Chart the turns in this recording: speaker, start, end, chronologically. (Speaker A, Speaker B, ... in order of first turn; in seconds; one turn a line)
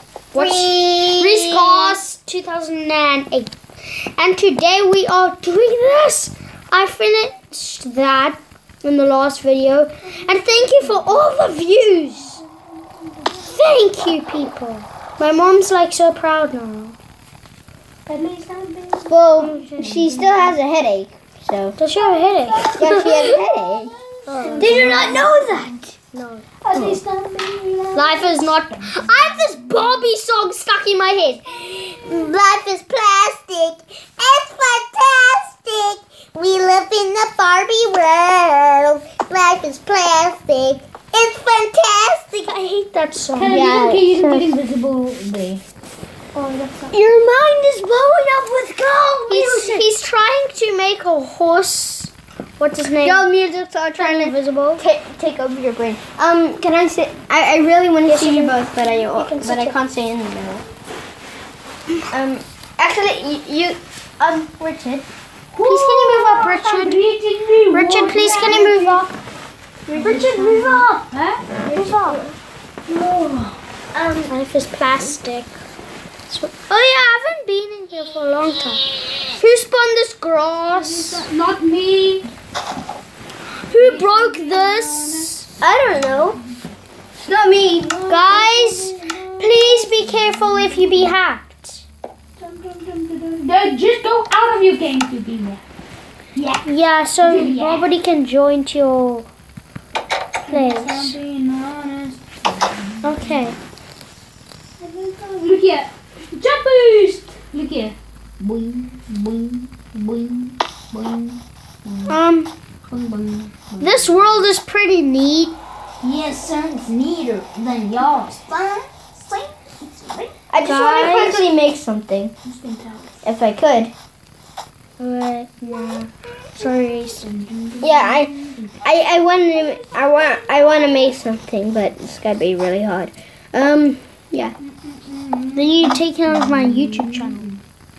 Speaker A: 0.3-3.5
Speaker B: 0.3-2.0
Speaker A: 4.2-12.4
Speaker C: 10.9-11.2
Speaker C: 12.8-13.6
Speaker A: 13.4-17.0
Speaker C: 18.1-20.6
Speaker B: 19.1-21.8
Speaker A: 19.4-19.9
Speaker A: 21.8-23.4
Speaker C: 21.9-25.7
Speaker B: 22.8-23.9
Speaker A: 24.3-25.5
Speaker B: 24.5-25.8
Speaker A: 26.0-27.0
Speaker C: 26.6-29.7
Speaker A: 27.9-32.1
Speaker B: 31.7-42.5
Speaker A: 42.5-44.6
Speaker C: 43.4-45.6
Speaker B: 43.5-44.1
Speaker A: 46.3-47.0
Speaker B: 46.9-49.9
Speaker A: 49.3-53.3
Speaker B: 53.0-60.7
Speaker A: 54.0-54.8
Speaker A: 58.1-59.8
Speaker B: 62.1-65.1
Speaker C: 65.5-69.1
Speaker A: 65.6-67.0
Speaker A: 67.7-69.0
Speaker B: 69.9-70.9
Speaker C: 69.9-71.5
Speaker A: 70.0-70.8
Speaker A: 71.7-72.2
Speaker B: 71.7-72.4
Speaker C: 72.9-73.6
Speaker B: 73.9-74.3
Speaker A: 74.3-75.5
Speaker A: 76.3-81.3
Speaker C: 80.7-82.2
Speaker A: 83.7-85.5
Speaker C: 83.7-86.4
Speaker B: 85.6-86.4
Speaker B: 87.2-87.9
Speaker C: 87.6-91.1
Speaker A: 88.0-91.8
Speaker C: 92.4-95.6
Speaker C: 96.3-97.9
Speaker A: 96.6-99.3
Speaker C: 100.5-103.5
Speaker A: 100.5-101.2
Speaker A: 103.0-103.5
Speaker C: 104.8-112.2
Speaker A: 112.1-112.5
Speaker C: 112.9-114.5
Speaker A: 113.8-115.5
Speaker C: 116.0-120.4
Speaker B: 120.5-122.3
Speaker A: 120.6-121.4
Speaker C: 122.4-123.2
Speaker B: 123.2-123.9
Speaker A: 125.0-127.2
Speaker C: 125.7-128.8
Speaker B: 127.8-134.6
Speaker C: 129.5-131.2
Speaker C: 134.7-137.6
Speaker A: 135.6-137.5